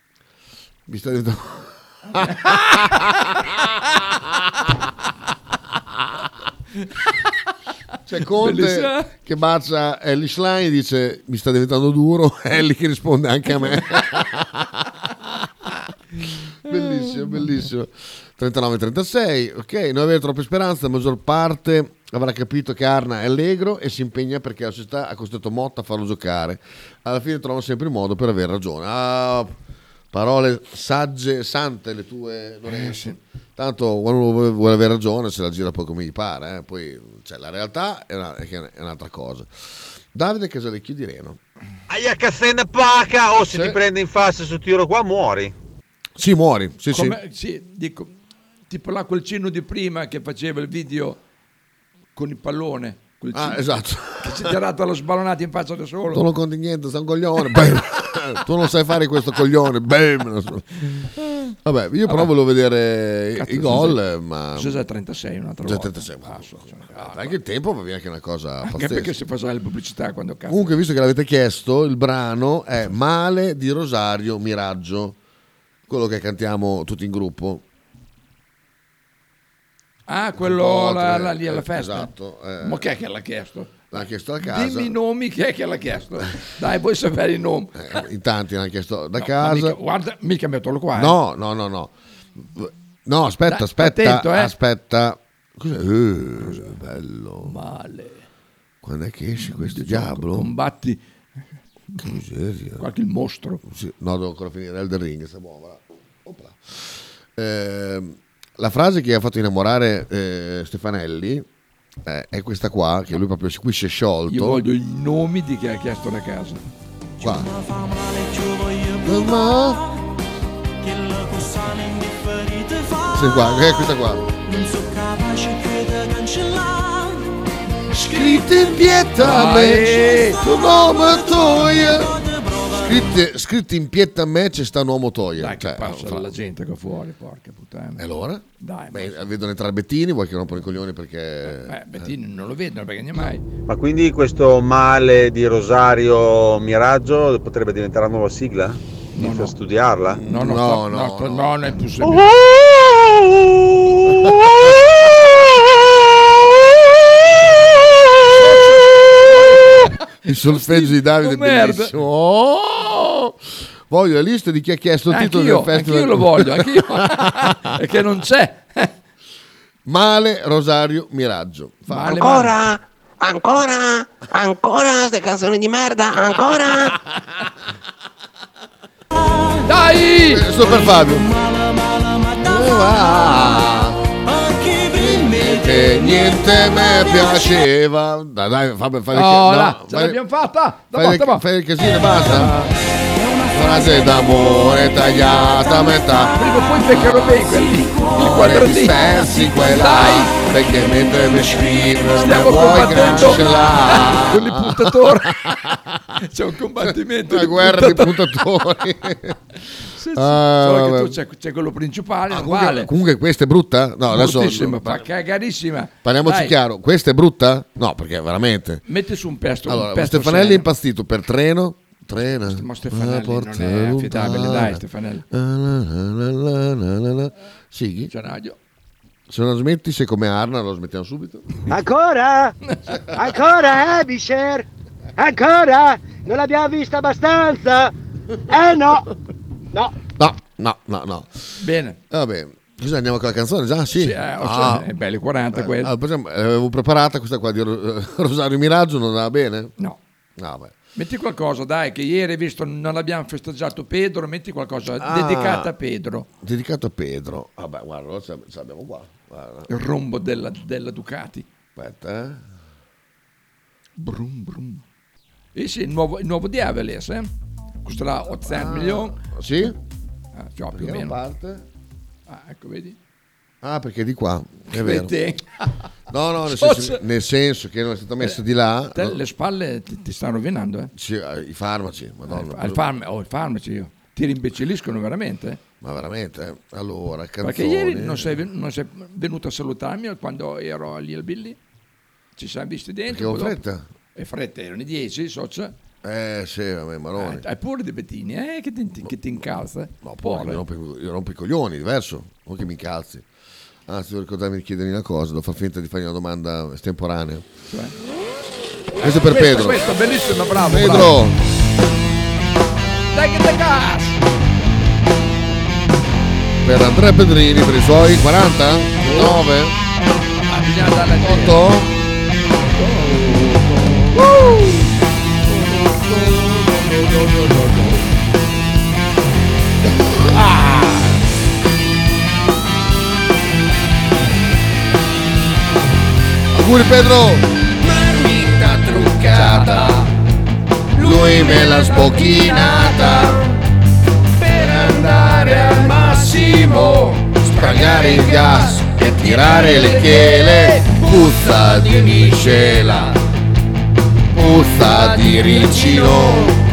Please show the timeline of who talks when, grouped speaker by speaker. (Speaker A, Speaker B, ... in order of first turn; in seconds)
Speaker A: 0.9-4.0, 8.1-14.9, 16.6-29.5, 30.1-41.4, 43.4-43.8, 46.1-47.2, 53.3-54.5, 56.1-60.7, 61.6-64.8, 65.6-69.2, 70.5-75.2, 75.9-77.6, 80.4-82.8, 83.9-84.9, 87.7-89.8, 90.9-97.5, 98.8-100.5, 102.0-102.8, 103.6-111.5, 112.0-114.6, 117.2-117.5, 119.0-119.8, 123.1-124.3, 127.9-136.3, 138.0-142.1, 150.1-151.7, 154.0-154.7, 160.2-167.7, 169.8-172.2, 180.3-181.3, 182.4-184.1, 184.7-190.2, 190.9-192.7, 193.5-196.4, 198.1-206.0, 206.8-209.4, 210.1-211.2, 212.3-215.1, 216.0-218.8, 219.7-228.1, 229.3-231.5, 240.2-241.4, 242.1-244.9, 245.5-249.7, 250.4-250.7, 255.0-255.7, 256.4-259.7, 261.8-262.5, 268.4-269.8, 270.7-271.6, 273.6-275.1, 276.1-279.2, 280.9-282.8, 285.8-288.4, 293.1-293.9, 296.0-297.4, 300.0-303.3, 303.9-307.5, 309.0-309.9, 310.7-311.4, 316.6-319.8, 321.1-321.9, 324.1-324.5, 330.3-330.8, 336.5-340.0, 340.9-343.5, 344.5-346.5, 347.4-353.1, 354.3-356.6
Speaker B: 2.3-3.0, 7.0-7.3, 8.4-9.1, 16.8-17.4, 32.7-33.2, 46.9-48.1, 48.7-51.2, 52.1-53.6, 54.2-56.2, 62.1-62.3, 63.4-64.0, 64.5-67.4, 68.6-70.7, 80.1-82.1, 82.6-88.0, 89.2-91.2, 93.5-94.5, 96.4-96.7, 97.4-98.2, 99.4-101.0, 102.8-103.6, 114.3-116.6, 129.2-130.4, 135.4-138.0, 138.6-139.3, 141.5-143.4, 149.1-149.5, 150.2-152.3, 158.3-161.9, 165.1-168.9, 171.9-172.6, 179.6-180.5, 189.1-191.4, 196.3-200.3, 202.2-205.6, 206.2-208.2, 209.9-212.9, 214.1-216.5, 218.8-220.7, 222.3-225.2, 228.1-228.6, 241.6-242.0, 243.9-245.9, 250.9-256.3, 259.7-261.5, 264.0-264.8, 265.5-267.3, 267.8-269.2, 270.3-271.2, 272.3-273.0, 274.7-275.6, 276.4-277.0, 278.9-280.9, 282.3-285.6, 287.4-291.6, 292.4-293.6, 294.1-295.7, 297.1-300.6, 307.7-307.9, 309.0-311.2, 313.1-314.2, 319.0-319.4, 320.5-321.6, 322.8-323.3, 325.8-328.0, 339.5-340.0, 341.6-342.3, 344.5-352.2
Speaker C: 41.9-45.5, 143.7-150.2
Speaker D: 172.1-176.8
Speaker E: 231.7-232.6, 233.1-234.7, 235.2-237.9, 238.5-239.0